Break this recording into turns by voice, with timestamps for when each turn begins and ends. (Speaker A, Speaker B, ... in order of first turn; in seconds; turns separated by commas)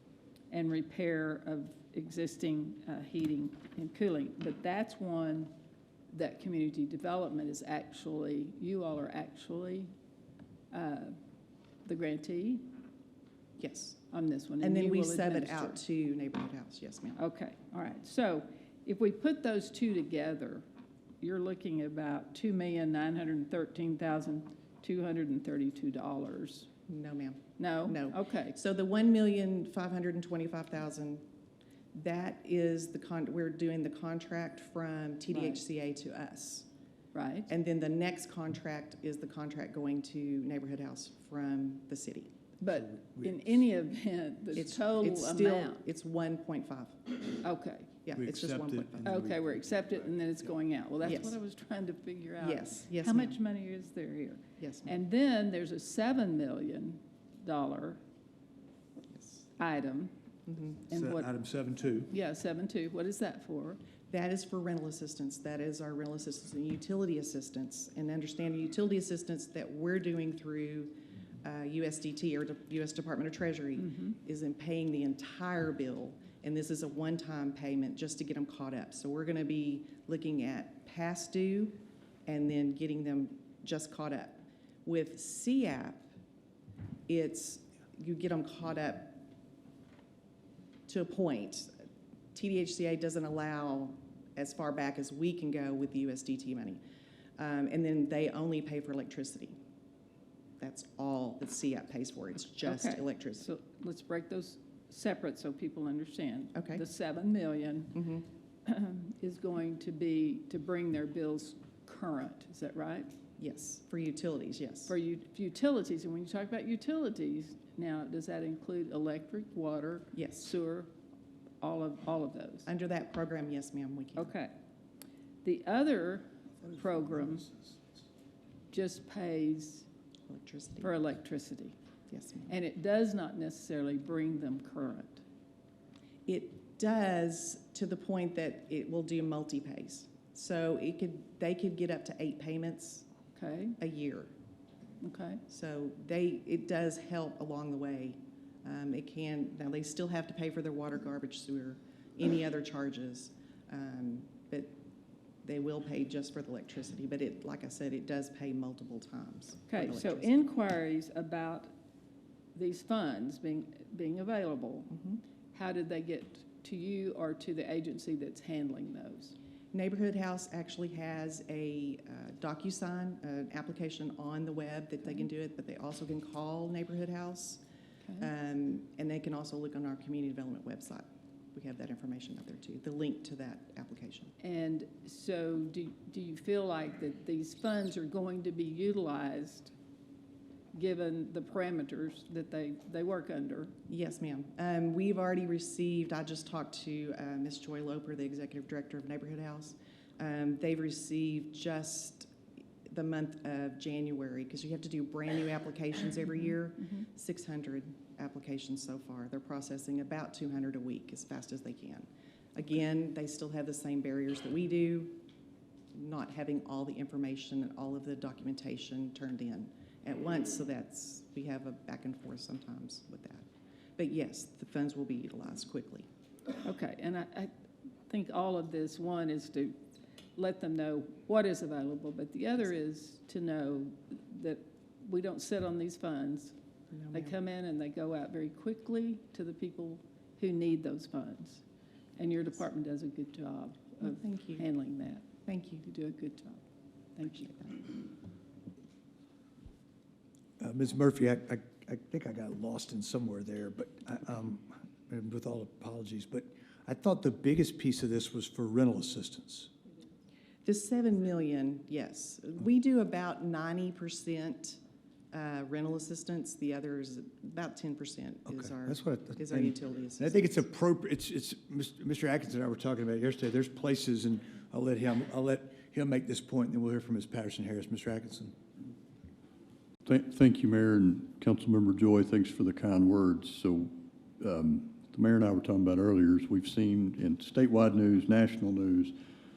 Speaker A: 0.5-5.5, Speaker A: 6.1-9.9, Speaker A: 10.7-11.2, Speaker A: 11.8-12.7, Speaker B: 13.6-14.0, Speaker A: 14.1-15.8, Speaker B: 14.6-17.2, Speaker A: 17.2-20.6, Speaker A: 21.2-26.7, Speaker B: 26.9-31.2, Speaker A: 27.6-28.6, Speaker B: 31.9-36.7, Speaker A: 35.3-35.6, Speaker A: 37.1-37.5, Speaker B: 37.5-42.3, Speaker A: 42.6-45.8, Speaker C: 43.0-43.5, Speaker B: 44.5-47.1, Speaker A: 47.4-47.9, Speaker B: 48.0-49.1, Speaker C: 48.1-49.4, Speaker A: 49.0-58.0, Speaker B: 51.0-51.4, Speaker B: 52.4-53.4, Speaker B: 54.6-54.9, Speaker B: 59.1-59.5, Speaker A: 59.6-60.1, Speaker B: 60.5-60.8, Speaker A: 60.9-61.3, Speaker C: 60.9-62.1, Speaker A: 62.1-63.8, Speaker B: 64.1-86.1, Speaker A: 73.8-74.1, Speaker B: 87.1-89.2, Speaker B: 90.9-91.8, Speaker B: 92.3-96.8, Speaker B: 97.4-99.6, Speaker B: 100.6-103.5, Speaker A: 102.6-108.0, Speaker B: 106.5-106.8, Speaker B: 107.9-108.2, Speaker A: 108.6-113.1, Speaker B: 113.4-114.9, Speaker A: 114.9-120.9, Speaker B: 120.1-120.5, Speaker A: 121.6-122.7, Speaker B: 122.7-124.3, Speaker A: 124.2-124.5, Speaker A: 125.4-127.5, Speaker A: 128.7-129.8, Speaker B: 130.3-130.9, Speaker A: 130.8-131.8, Speaker B: 132.1-132.5, Speaker A: 132.5-135.2, Speaker B: 136.2-143.1, Speaker A: 143.3-143.8, Speaker B: 143.8-144.3, Speaker A: 145.0-145.4, Speaker B: 145.5-154.8, Speaker B: 155.4-160.4, Speaker A: 159.7-161.7, Speaker A: 162.5-164.9, Speaker B: 164.9-165.2, Speaker A: 165.5-169.3, Speaker B: 169.7-177.6, Speaker B: 178.2-184.3, Speaker A: 184.4-189.7, Speaker A: 190.7-193.7, Speaker B: 193.9-202.3, Speaker B: 202.8-215.2, Speaker B: 215.9-223.4, Speaker B: 224.0-226.1, Speaker A: 226.6-227.5, Speaker A: 228.1-229.8, Speaker A: 230.3-236.5, Speaker B: 236.9-237.3, Speaker A: 237.1-241.6, Speaker A: 242.2-245.3, Speaker B: 244.0-244.7, Speaker B: 245.4-245.8, Speaker A: 245.8-246.6, Speaker A: 247.2-247.9, Speaker B: 247.2-247.8, Speaker C: 250.6-259.7, Speaker B: 260.6-264.8, Speaker B: 265.3-270.6, Speaker C: 268.5-278.6, Speaker D: 280.0-289.1